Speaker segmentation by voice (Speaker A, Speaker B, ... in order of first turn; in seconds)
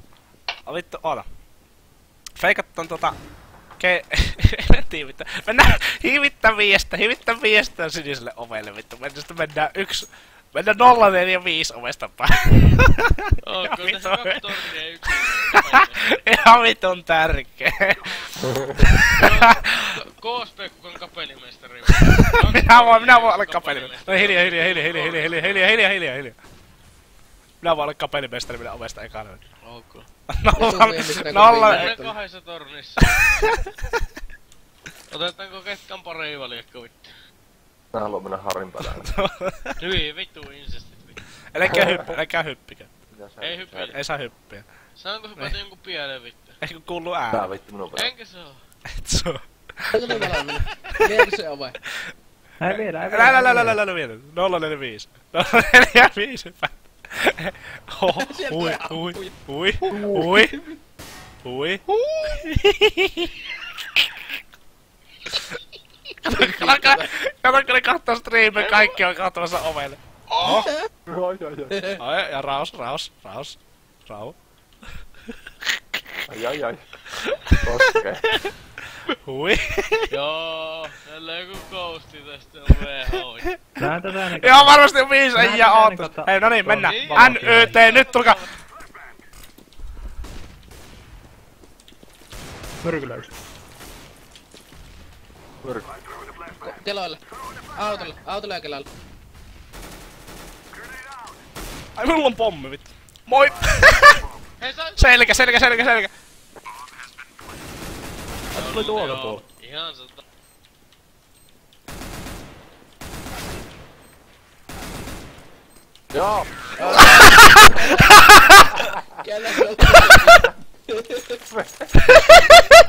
Speaker A: 0.7-1.3, 2.4-3.2, 3.8-14.7, 16.1-19.8, 21.9-26.4, 27.6-29.4, 30.3-31.9, 38.8-39.7, 41.5-42.9, 43.9-44.6, 46.6-47.5, 48.9-50.3, 52.7-60.5, 61.4-63.3, 65.3-65.6, 66.2-70.7, 71.9-74.4, 77.2-77.6, 79.2-80.1, 83.6-88.5, 102.0-104.3, 105.0-106.1, 108.5-109.4
Speaker B: 13.4-16.2, 19.1-25.7, 29.6-30.1, 31.4-33.5, 35.1-37.1, 39.8-41.2, 43.4-44.0, 45.0-46.6, 47.9-48.6, 68.5-69.0, 80.1-83.5, 86.7-88.4, 104.6-105.9, 108.5-110.2
Speaker C: 30.5-32.2, 49.9-51.8, 58.1-59.3, 59.9-60.7, 61.9-62.4, 66.2-67.1, 70.3-70.9, 71.7-72.0, 96.6-97.2, 97.7-98.9, 116.8-118.6, 119.2-121.4
Speaker D: 37.9-39.1, 41.7-42.0, 43.1-43.9, 47.3-48.1, 71.0-71.8, 76.3-76.9, 77.6-78.3, 116.1-117.7, 121.5-121.8
Speaker E: 52.6-53.8, 83.8-88.0, 92.8-93.3